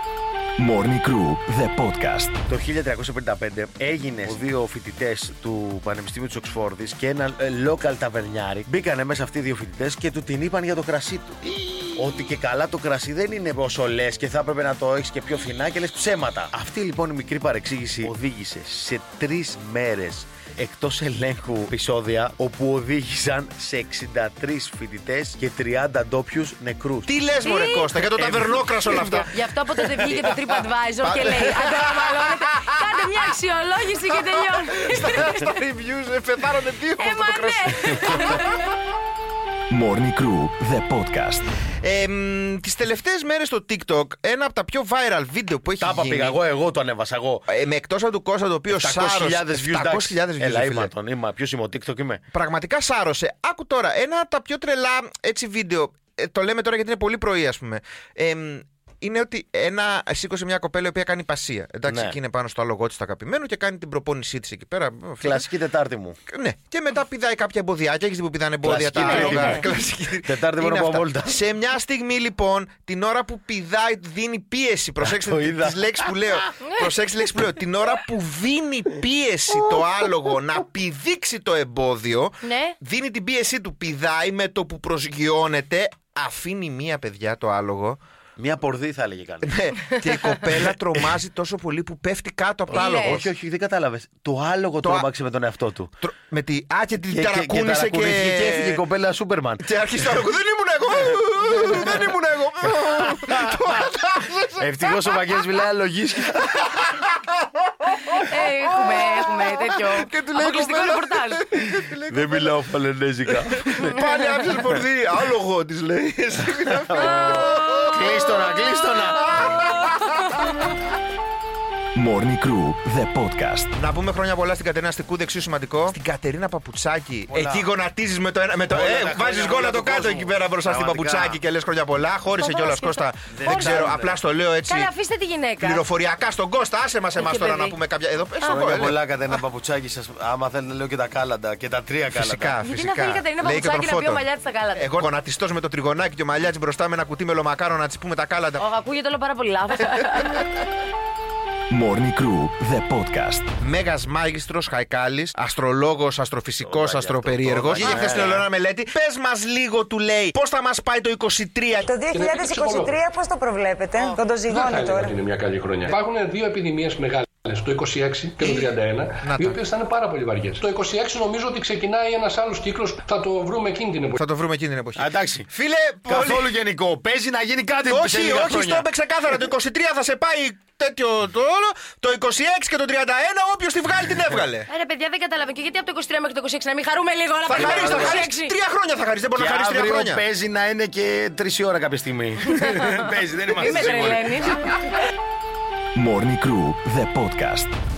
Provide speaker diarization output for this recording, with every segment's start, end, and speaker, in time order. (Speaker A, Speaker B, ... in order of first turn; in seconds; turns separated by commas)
Speaker A: 0.6-2.3, Speaker B: 2.5-27.1, Speaker C: 11.7-11.9, Speaker C: 27.1-29.3, Speaker D: 27.4-27.9, Speaker B: 28.0-29.2, Speaker D: 29.2-35.4, Speaker C: 31.0-32.4, Speaker C: 34.9-38.4, Speaker D: 37.0-38.6, Speaker A: 39.7-41.4, Speaker C: 41.8-46.4, Speaker B: 45.8-47.5, Speaker C: 47.5-50.9, Speaker B: 48.7-52.2, Speaker C: 52.3-65.5, Speaker B: 61.9-62.2, Speaker B: 65.2-66.2, Speaker C: 66.3-88.0, Speaker B: 68.6-69.7, Speaker D: 69.0-69.7, Speaker B: 70.2-71.4, Speaker B: 75.0-76.4, Speaker D: 82.4-82.8, Speaker B: 88.4-89.6, Speaker C: 89.4-93.3, Speaker B: 92.7-95.9, Speaker D: 92.7-93.2, Speaker C: 94.8-95.1, Speaker C: 96.0-98.8, Speaker B: 97.1-99.7, Speaker C: 99.6-105.5, Speaker B: 101.6-102.0, Speaker B: 103.2-103.8, Speaker B: 104.6-106.6, Speaker C: 106.5-107.1, Speaker C: 108.2-112.6, Speaker D: 108.2-111.4, Speaker B: 112.1-114.0, Speaker C: 113.5-118.3, Speaker B: 116.7-119.7, Speaker D: 117.0-117.4, Speaker C: 119.2-120.5, Speaker A: 122.0-123.7, Speaker C: 123.8-134.9, Speaker B: 127.3-127.7, Speaker B: 128.7-131.4, Speaker D: 132.3-133.8, Speaker B: 133.3-134.2, Speaker D: 134.7-135.9, Speaker C: 135.6-139.0, Speaker D: 137.2-137.8, Speaker D: 138.4-138.8, Speaker B: 138.5-142.6, Speaker C: 142.1-148.6, Speaker D: 142.6-145.1, Speaker D: 148.6-150.4, Speaker A: 151.7-153.5, Speaker C: 153.6-161.9, Speaker B: 156.6-158.5, Speaker E: 161.9-164.9, Speaker F: 162.1-162.9, Speaker F: 164.5-174.2, Speaker C: 168.4-169.6, Speaker C: 174.2-176.6, Speaker B: 175.0-175.5, Speaker B: 176.1-178.9, Speaker C: 177.9-184.7, Speaker D: 184.7-188.5, Speaker C: 187.4-190.2, Speaker B: 187.6-188.2, Speaker B: 189.4-194.7, Speaker D: 192.6-192.9, Speaker D: 193.6-194.7, Speaker A: 195.9-197.7